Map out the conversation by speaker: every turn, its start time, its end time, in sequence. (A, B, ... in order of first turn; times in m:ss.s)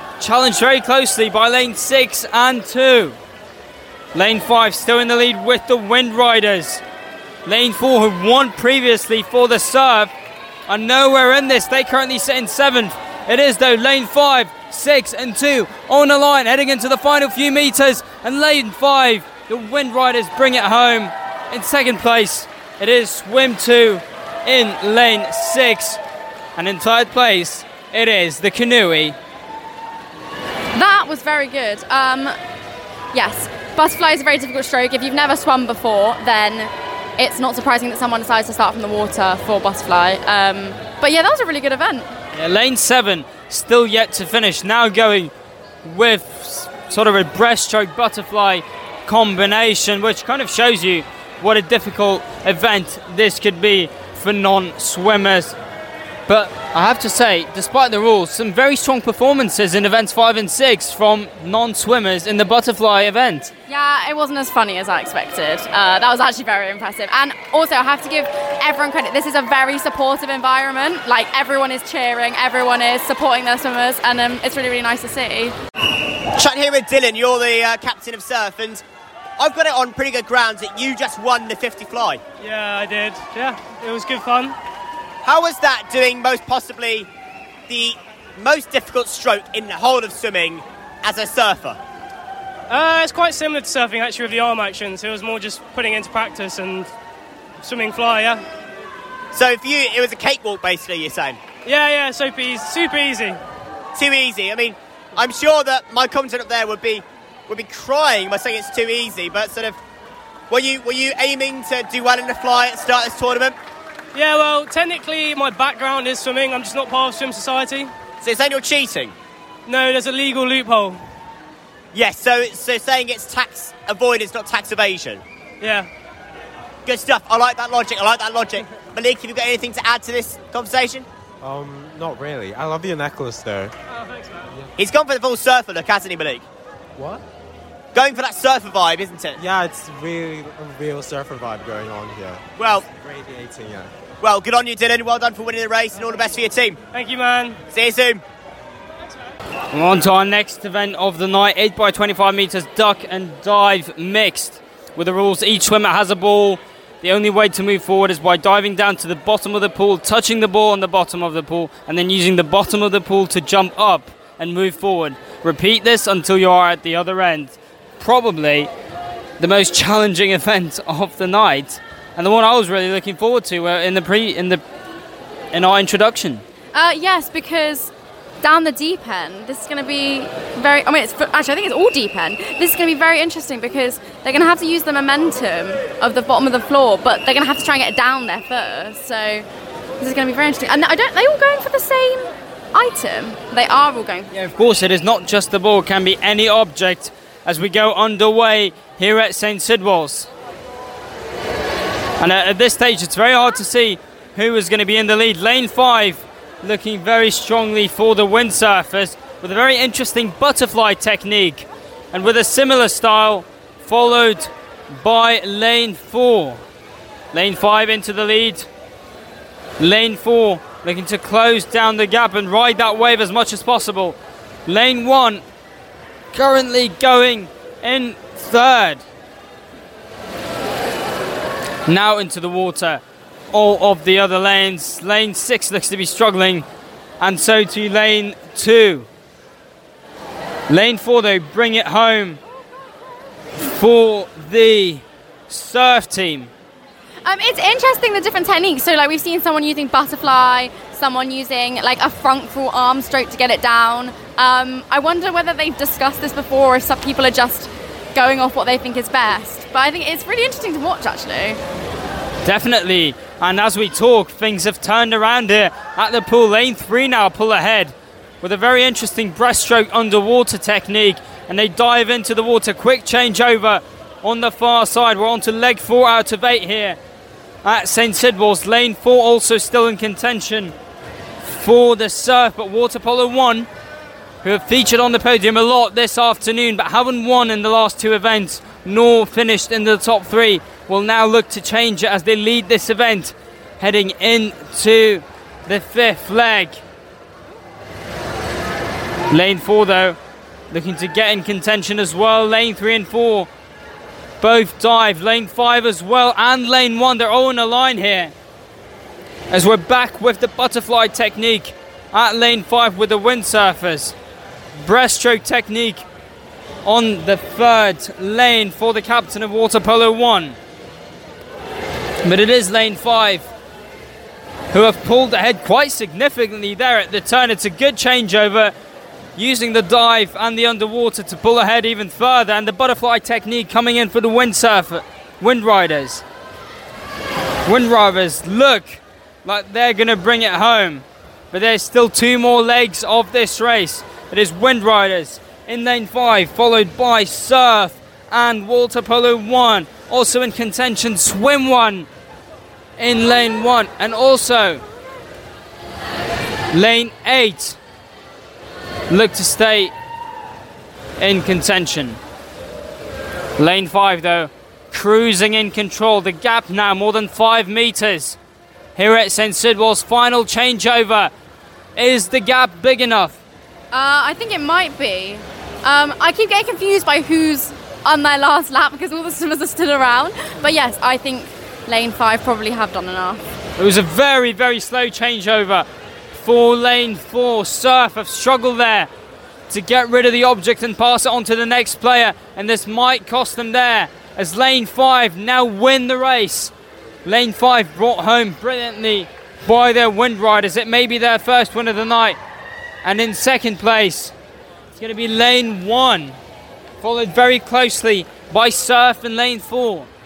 0:00.2-0:03.2 A
0:04.1-0:06.8 A
0:07.4-0:10.1 A
0:10.7-0:26.0 A
0:26.6-0:29.2 A
0:30.7-0:32.3 B
0:33.1-0:42.1 B
0:42.3-0:45.3 A
0:45.8-0:55.5 A
0:56.3-1:03.5 A
1:03.7-1:15.5 B
1:16.3-1:18.8 C
1:19.4-1:22.2 C
1:22.4-1:24.5 D
1:25.2-1:27.1 C
1:27.7-1:31.8 C
1:32.7-1:36.9 D
1:37.6-1:38.4 D
1:39.3-1:41.4 C
1:41.6-1:43.4 D
1:43.9-1:49.8 C
1:50.5-1:53.5 C
1:54.1-1:57.9 D
1:58.2-1:59.1 C
1:59.7-2:01.0 D
2:01.9-2:05.2 C
2:05.6-2:05.9 D
2:06.8-2:11.0 C
2:11.4-2:13.7 E
2:14.8-2:16.4 C
2:17.0-2:17.2 E
2:17.9-2:19.4 C
2:19.4-2:23.9 E
2:22.6-2:22.8 C
2:24.2-2:26.8 C
2:26.9-2:27.6 D
2:27.7-2:28.2 C
2:29.7-2:48.7 A
2:49.4-2:54.6 A
2:55.5-2:56.4 A
2:56.7-3:09.4 B
3:10.0-3:14.3 B
3:14.3-3:20.3 A
3:22.2-3:36.6 A
3:37.3-3:38.7 A
3:39.8-3:45.4 A
3:46.3-3:49.0 A
3:51.9-3:53.0 A
3:53.5-3:56.6 A
3:57.2-3:59.1 A
4:00.7-4:02.4 A
4:03.6-4:06.5 A
4:07.2-4:21.6 B
4:22.4-4:37.0 A
4:37.6-4:40.7 A
4:41.4-4:43.7 A
4:44.4-4:56.8 A
4:59.3-5:00.2 A
5:00.7-5:03.5 A
5:04.4-5:08.3 A
5:09.5-5:14.1 A
5:14.7-5:16.0 A
5:16.8-5:20.6 A
5:22.2-5:23.5 A
5:24.7-5:28.7 A
5:29.4-5:36.2 A
5:37.6-5:52.1 A
5:53.0-5:54.8 A
5:56.7-5:57.8 A
5:59.1-5:59.9 A
6:01.2-6:02.2 A
6:03.6-6:08.4 A
6:09.0-6:11.3 A
6:12.0-6:13.4 A
6:13.9-6:23.4 B
6:23.8-6:29.1 A
6:29.7-6:36.7 A
6:37.2-6:42.4 A
6:43.0-6:44.3 A
6:45.0-6:46.4 A
6:47.0-6:50.1 A